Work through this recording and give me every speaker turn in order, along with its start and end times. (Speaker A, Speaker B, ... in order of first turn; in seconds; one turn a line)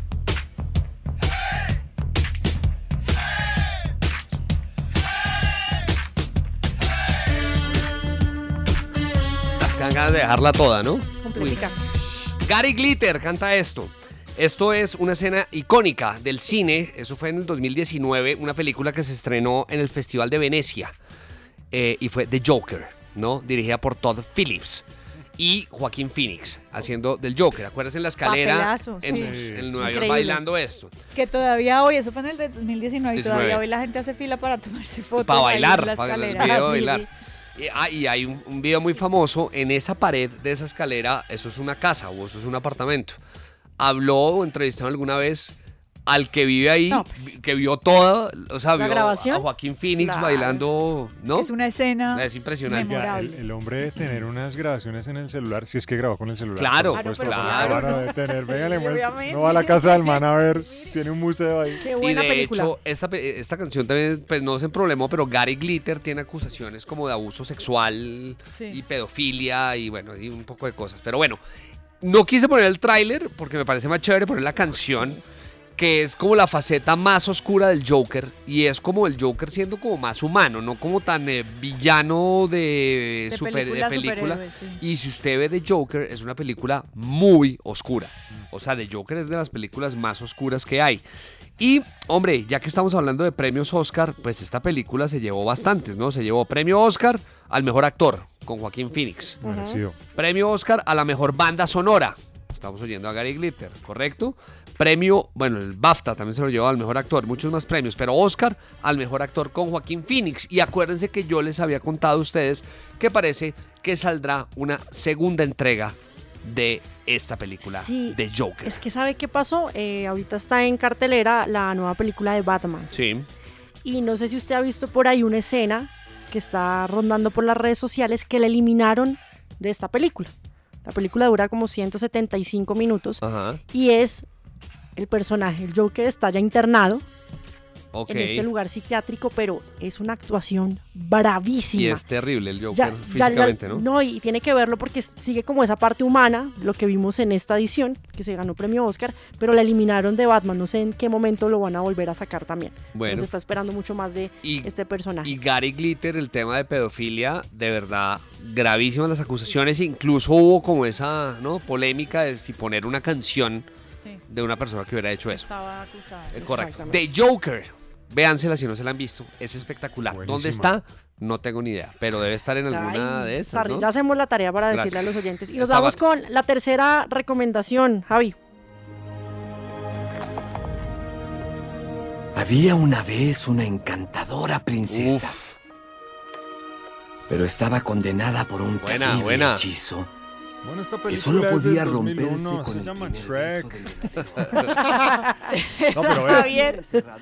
Speaker A: 9.6-11.7
Speaker B: 11.2-11.8
Speaker A: 12.4-20.9
Speaker A: 21.7-24.9
Speaker A: 25.4-30.9
Speaker C: 28.2-29.4
Speaker D: 29.1-30.2
Speaker B: 29.8-30.4
Speaker C: 31.1-37.1
Speaker A: 33.1-33.6
Speaker A: 35.2-43.2
Speaker B: 36.4-36.8
Speaker A: 43.8-45.5
Speaker A: 46.1-51.5
Speaker C: 46.9-47.3
Speaker B: 48.8-49.5
Speaker B: 50.0-50.6
Speaker C: 51.3-53.4
Speaker A: 52.1-53.1
Speaker D: 52.7-61.9
Speaker A: 56.6-58.0
Speaker C: 56.9-60.2
Speaker B: 61.8-62.7
Speaker A: 62.0-71.4
Speaker C: 68.5-68.8
Speaker A: 72.0-75.2
Speaker B: 74.7-75.2
Speaker A: 75.8-91.0
Speaker C: 83.3-84.8
Speaker A: 91.6-99.4
Speaker B: 99.4-99.8
Speaker D: 99.4-100.0
Speaker A: 100.1-118.8
Speaker B: 117.6-122.9
Speaker A: 122.9-123.3
Speaker B: 123.8-130.3
Speaker B: 130.8-134.2
Speaker A: 133.2-133.6
Speaker B: 135.0-137.0
Speaker A: 137.9-138.5
Speaker B: 138.1-142.0
Speaker A: 141.8-143.9
Speaker B: 142.7-155.3
Speaker A: 152.9-153.3
Speaker A: 154.4-154.7
Speaker A: 155.2-163.7
Speaker A: 164.3-165.5
Speaker C: 165.3-166.5
Speaker A: 166.3-173.9
Speaker B: 166.4-167.0
Speaker D: 170.1-170.8
Speaker B: 172.7-178.4
Speaker A: 174.7-176.0
Speaker E: 182.4-185.3
Speaker A: 184.9-185.5
Speaker E: 187.3-190.1
Speaker A: 188.8-189.7
Speaker D: 190.6-194.1
Speaker E: 191.1-193.7
Speaker B: 194.9-195.2
Speaker C: 195.5-196.8
Speaker D: 195.9-196.7
Speaker B: 196.5-196.8